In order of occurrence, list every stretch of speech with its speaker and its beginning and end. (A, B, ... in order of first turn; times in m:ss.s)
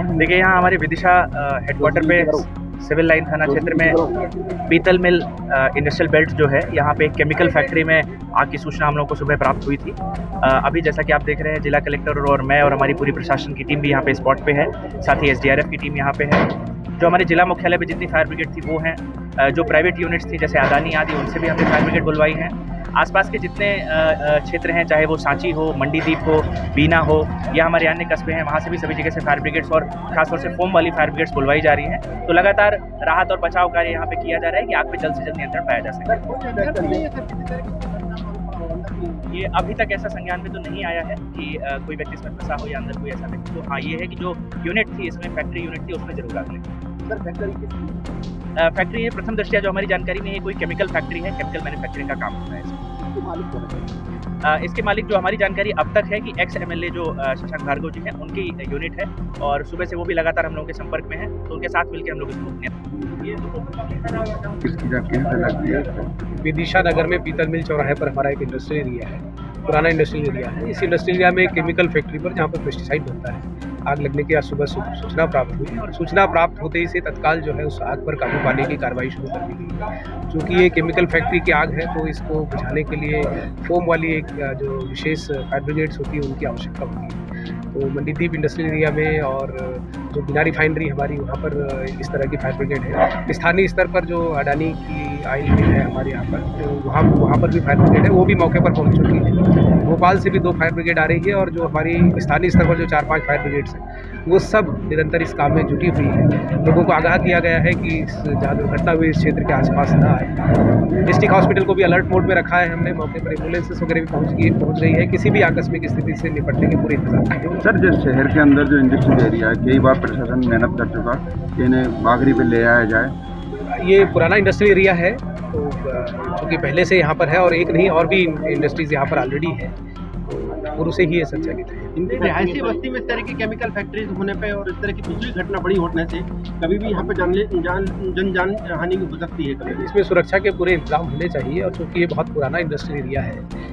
0:00.1-0:04.0 A
0:01.8-0:02.5 B
0:03.5-0:04.1 B
0:04.7-0:36.2 A
0:36.1-0:37.1 B
0:36.3-0:39.3 C
0:39.3-0:46.6 A
0:47.1-0:48.0 B
0:48.6-0:52.7 A
0:53.0-0:54.0 B
0:54.5-1:02.7 A
1:04.6-1:06.1 D
1:06.3-1:50.4 E
1:51.0-1:57.6 E
1:57.6-2:03.1 D
2:03.8-2:12.0 E
2:12.0-2:19.9 C
2:19.7-2:23.5 E